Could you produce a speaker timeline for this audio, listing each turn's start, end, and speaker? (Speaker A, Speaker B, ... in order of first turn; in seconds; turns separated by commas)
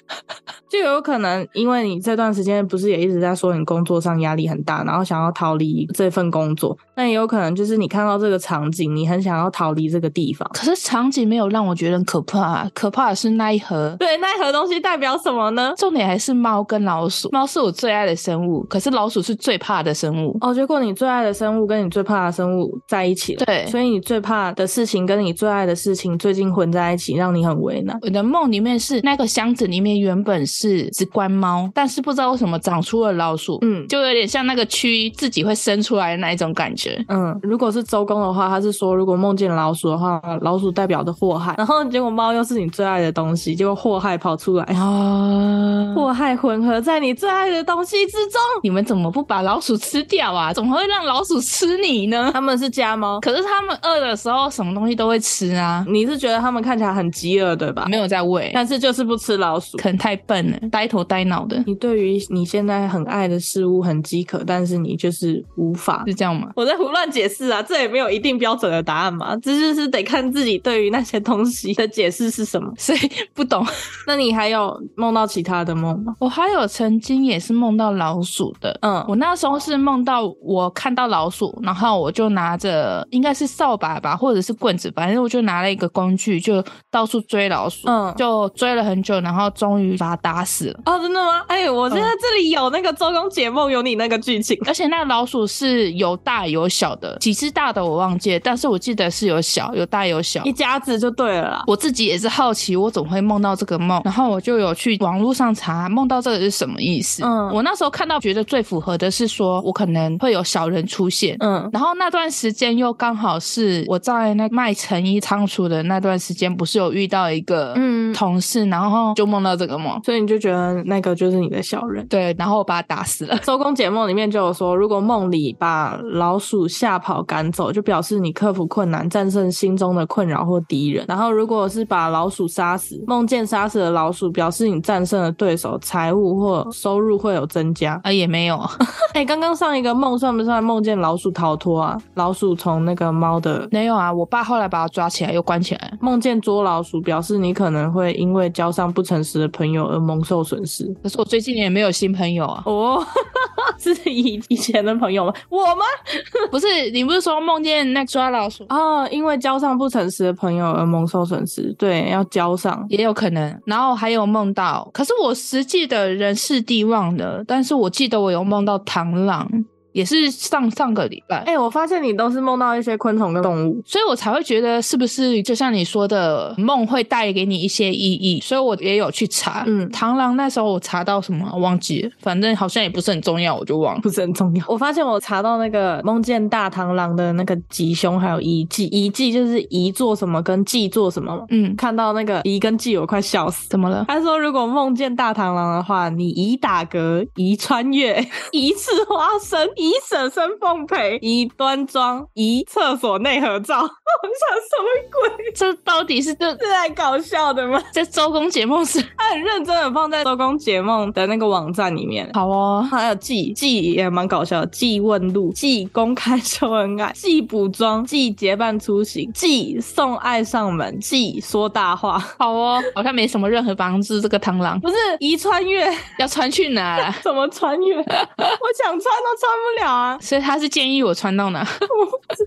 Speaker A: 0.7-10.5, Speaker B: 10.5-14.0, Speaker A: 14.0-15.8, Speaker B: 15.8-20.4, Speaker A: 20.4-28.0, Speaker B: 23.4-23.8, Speaker B: 28.0-37.1, Speaker A: 33.6-33.9, Speaker A: 37.1-44.8, Speaker B: 44.7-46.1, Speaker A: 45.9-48.6, Speaker B: 48.6-52.4, Speaker A: 52.3-53.2, Speaker B: 53.2-55.9, Speaker A: 55.9-57.9, Speaker B: 57.9-58.6, Speaker A: 58.5-59.8, Speaker B: 59.8-61.7, Speaker A: 61.7-72.8, Speaker B: 66.1-66.5, Speaker B: 72.8-73.7, Speaker A: 74.1-76.2, Speaker B: 76.2-90.8, Speaker A: 78.8-79.1, Speaker A: 87.9-88.2, Speaker A: 90.8-94.7, Speaker B: 94.7-100.5, Speaker A: 100.4-101.7, Speaker B: 101.7-120.0, Speaker A: 107.2-107.6, Speaker A: 111.4-111.7, Speaker A: 117.8-118.2, Speaker A: 120.0-122.1, Speaker B: 122.1-123.5, Speaker A: 123.4-138.0, Speaker B: 138.0-138.8, Speaker A: 139.1-143.7, Speaker B: 143.7-146.0, Speaker A: 146.0-151.0, Speaker B: 151.0-152.7, Speaker A: 152.7-155.9, Speaker B: 156.5-158.7, Speaker A: 158.7-162.9, Speaker B: 162.9-171.5, Speaker A: 171.4-173.8, Speaker B: 173.9-184.0, Speaker A: 179.7-180.0, Speaker A: 184.0-205.5, Speaker B: 191.5-191.8, Speaker B: 193.7-194.1, Speaker B: 205.6-206.6, Speaker A: 206.6-207.9, Speaker B: 207.9-209.1, Speaker A: 209.2-212.3, Speaker B: 212.3-212.9, Speaker A: 212.9-222.4, Speaker B: 222.4-225.1, Speaker A: 224.9-226.1, Speaker B: 226.2-227.2, Speaker A: 227.2-230.2, Speaker B: 228.2-228.6, Speaker B: 230.2-231.7